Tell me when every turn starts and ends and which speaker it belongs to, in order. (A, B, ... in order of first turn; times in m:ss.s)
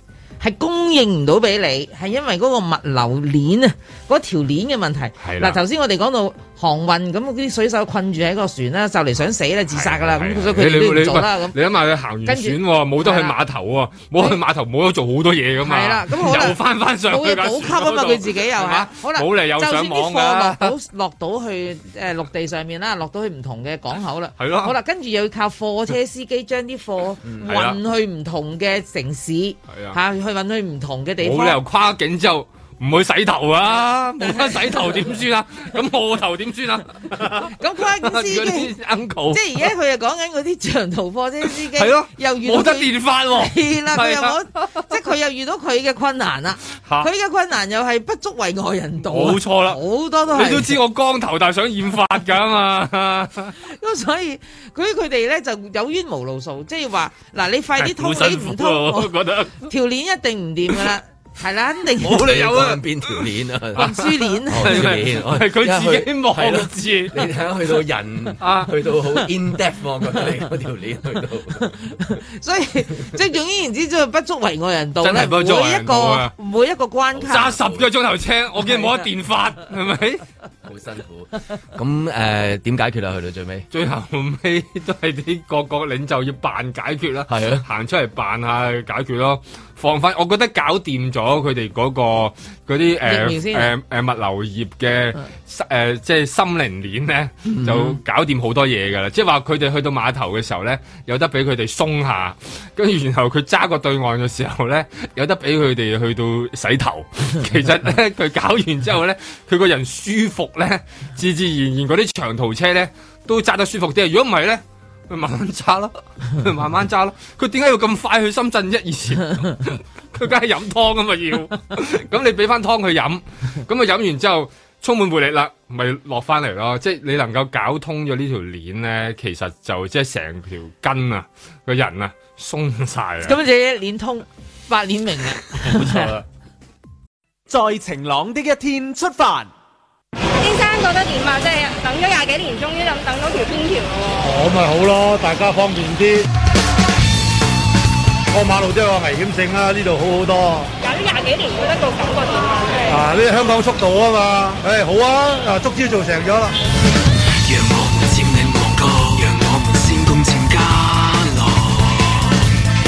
0:00.4-0:11.6 A
0:05.2-0:05.6 B
0:09.7-0:20.7 B
0:12.2-0:13.4 A
0:15.6-0:31.6 A
0:24.4-0:24.7 B
0:27.4-0:27.8 B
0:29.7-0:30.0 B
0:31.2-0:39.7 B
0:34.2-0:35.1 A
0:37.5-0:38.7 A
0:39.3-0:50.8 A
0:41.4-0:44.9 B
0:46.8-0:47.1 B
0:49.1-0:49.8 B
0:50.3-0:53.6 B
0:53.6-1:02.2 A
0:57.8-0:59.7 B
1:02.0-1:07.3 B
1:02.1-1:12.0 C
1:03.8-1:04.9 A
1:08.4-1:09.0 B
1:11.8-1:17.6 A
1:15.0-1:16.3 B
1:17.1-1:17.9 C
1:17.3-1:20.2 B
1:20.6-1:23.7 C
1:23.7-2:13.4 B
1:27.3-1:27.6 C
1:33.0-1:33.7 A
1:37.5-1:38.0 C
2:13.2-2:16.1 A
2:17.5-2:19.5 D
2:20.4-2:24.3 E
2:24.2-2:26.3 F
2:28.3-2:30.7 F
2:30.8-2:33.1 E
2:32.9-2:36.6 F
2:37.4-2:42.4 G